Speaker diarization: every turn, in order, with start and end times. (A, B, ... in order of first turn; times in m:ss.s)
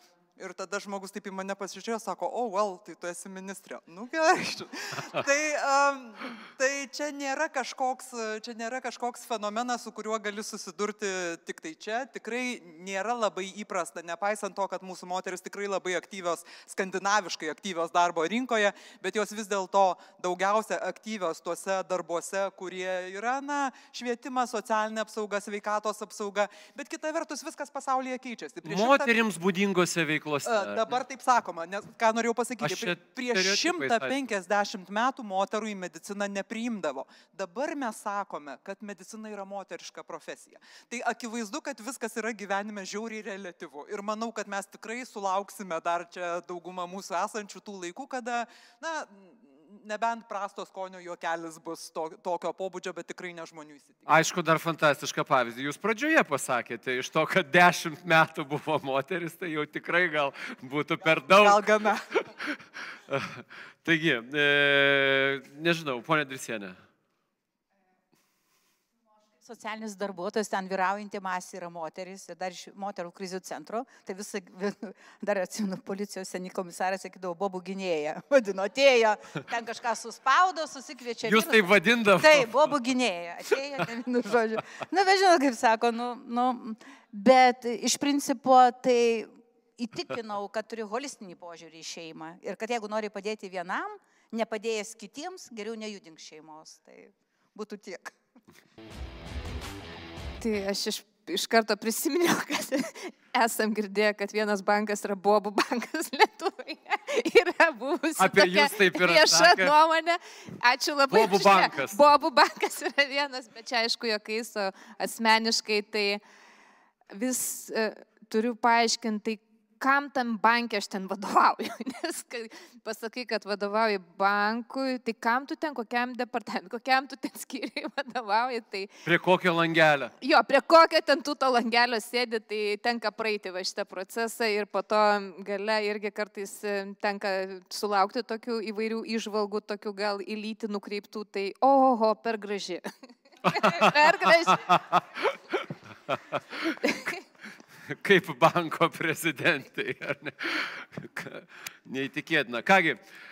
0:00.4-0:29.1 A
0:28.6-0:30.9 B
0:30.4-0:54.1 A
0:32.6-0:34.2 B
0:54.0-1:02.6 B
1:01.1-1:02.2 A
1:03.1-1:06.8 B
1:09.4-1:38.1 C
1:21.2-1:22.5 B
1:40.4-1:56.2 D
1:48.2-1:49.7 B
1:51.1-1:52.0 B
1:57.1-2:08.9 D
2:09.0-2:10.1 B
2:10.2-2:22.9 D
2:23.4-2:24.8 D
2:23.5-2:23.9 B
2:24.5-2:25.6 B
2:26.8-2:27.2 D
2:27.9-2:33.0 B